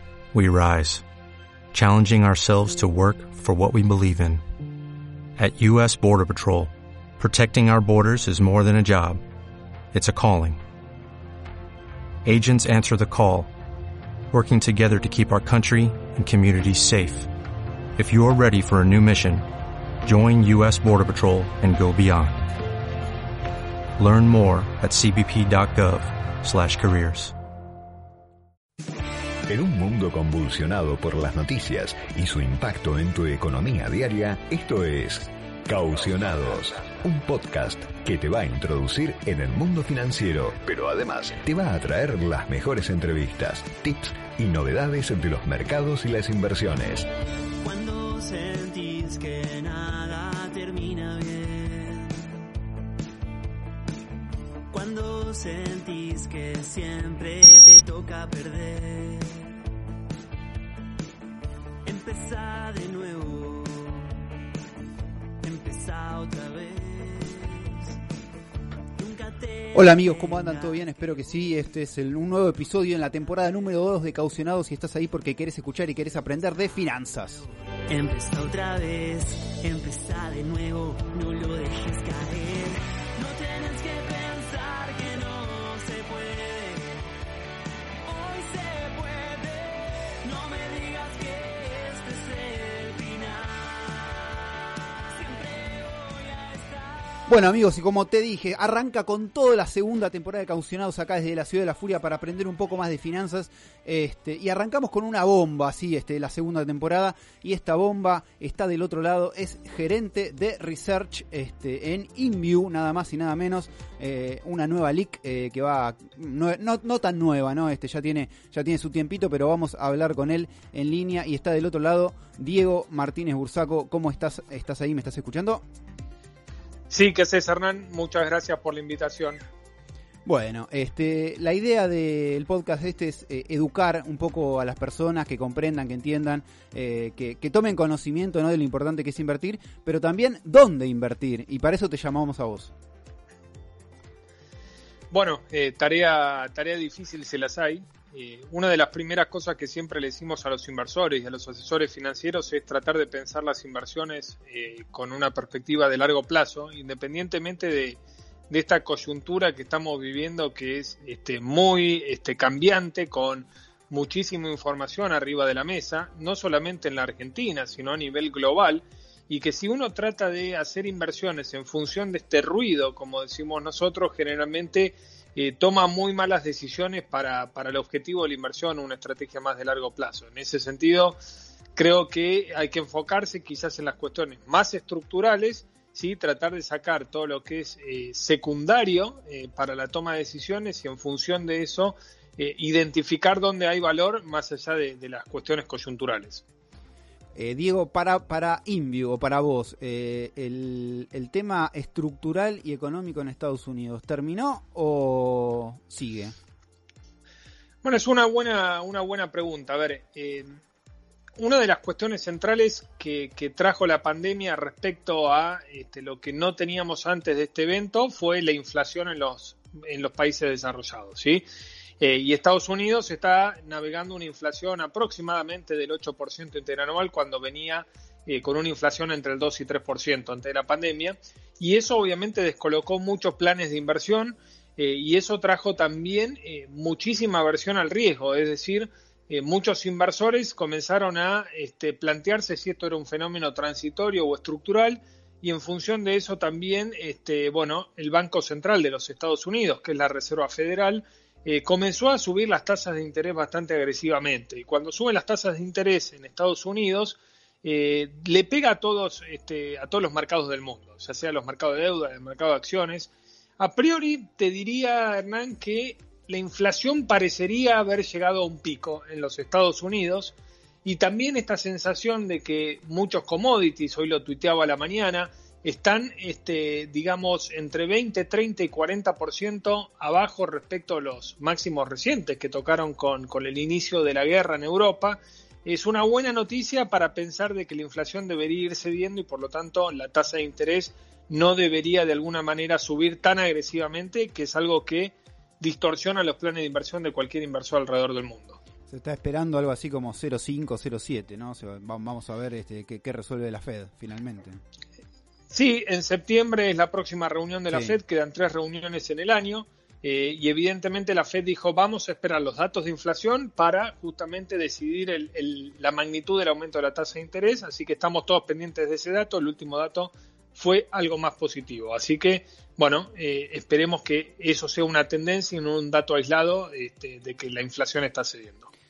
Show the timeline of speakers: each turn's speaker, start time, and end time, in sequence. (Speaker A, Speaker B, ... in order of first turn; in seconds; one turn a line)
Speaker A: 0.3-1.0
Speaker A: 1.7-4.4
Speaker A: 5.4-9.2
Speaker A: 9.9-10.6
Speaker A: 12.2-13.5
Speaker A: 14.3-17.3
Speaker A: 18.0-19.4
Speaker A: 20.0-22.5
Speaker A: 24.0-27.3
Speaker B: 29.5-47.1
Speaker C: 47.6-52.3
Speaker C: 54.7-59.6
Speaker C: 61.9-64.1
Speaker C: 65.4-68.0
Speaker C: 69.0-71.0
Speaker D: 69.7-77.5
Speaker C: 77.9-87.0
Speaker C: 88.0-93.8
Speaker C: 95.1-97.3
Speaker D: 97.3-125.6
Speaker E: 126.9-129.4
Speaker D: 130.3-142.7
Speaker E: 145.1-158.0
Speaker E: 158.5-181.2
Speaker E: 181.8-196.4
Speaker D: 197.4-206.4
Speaker E: 207.8-210.6
Speaker E: 211.4-221.5
Speaker E: 222.0-298.6
Speaker D: 298.9-304.6
Speaker E: 305.5-328.7
Speaker D: 307.7-308.0